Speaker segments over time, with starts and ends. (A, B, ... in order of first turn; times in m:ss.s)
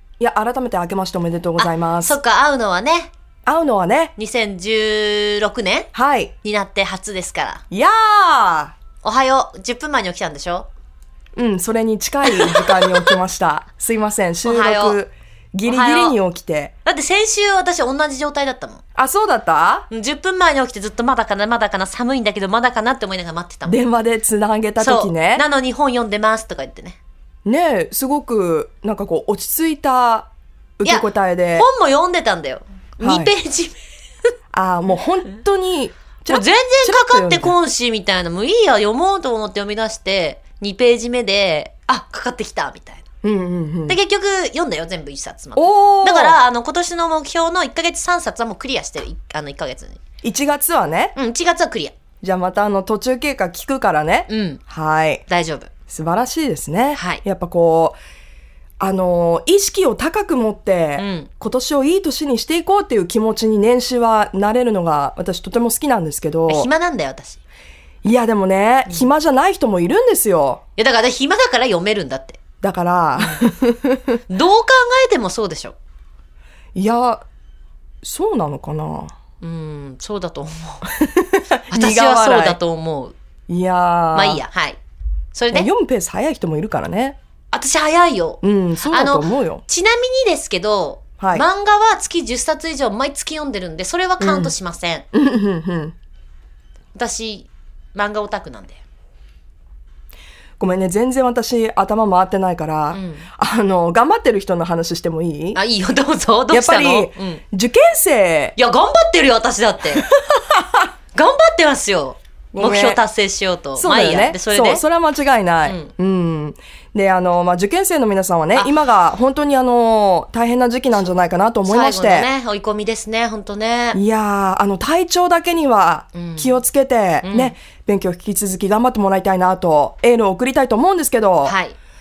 0:00.2-0:02.2 A
0:01.6-0:03.1 B
0:03.4-0:04.1 A
0:04.2-0:05.9 B
0:05.9-0:06.4 A
0:06.4-0:07.6 B
0:07.7-0:08.8 A
0:09.0-0:10.7 B
0:11.4-0:16.7 A
0:12.2-0:13.1 B
0:14.4-0:15.0 B
0:15.6-0:16.2 B
0:16.8-0:18.8 B
0:18.9-0:19.9 A
0:19.9-0:23.8 B
0:23.6-0:25.4 A
0:24.8-0:27.0 B
0:27.4-0:31.7 A
0:30.8-0:33.8 B
0:33.0-0:33.3 A
0:34.5-0:37.5 A
0:36.3-0:43.0 B
0:43.2-0:44.0 A
0:43.9-0:50.0 B
0:45.6-0:46.4 A
0:50.2-0:51.1 A
0:51.1-0:52.0 B
0:52.2-0:55.2 A
0:54.3-0:54.6 B
0:55.3-0:55.7 B
0:55.9-0:58.0 A
0:56.9-0:57.2 B
0:58.8-1:06.7 A
1:01.0-1:01.3 B
1:06.5-1:07.4 B
1:08.0-1:10.6 A
1:10.8-1:12.4 B
1:12.6-1:14.2 A
1:13.2-1:13.4 B
1:14.3-1:15.7 B
1:16.7-1:17.2 A
1:18.0-1:19.1 A
1:19.4-1:20.9 B
1:20.8-1:22.6 A
1:21.7-1:23.1 B
1:23.5-1:24.4 A
1:24.1-1:24.8 B
1:25.3-1:25.7 B
1:25.5-1:27.2 A
1:27.5-1:35.0 B
1:28.4-1:29.6 A
1:31.2-1:31.4 A
1:34.2-1:34.5 A
1:35.1-1:35.9 A
1:36.9-1:38.8 B
1:40.6-1:45.6 A
1:42.9-1:43.3 B
1:45.5-1:47.4 B
1:46.5-1:48.5 A
1:48.6-1:50.0 B
1:49.9-1:50.9 A
1:51.1-1:54.8 B
1:52.5-1:53.0 A
1:53.8-2:02.3 A
1:55.6-1:55.9 B
2:01.6-2:04.0 B
2:03.9-2:11.5 A
2:06.1-2:06.6 B
2:07.2-2:07.6 B
2:11.4-2:11.8 B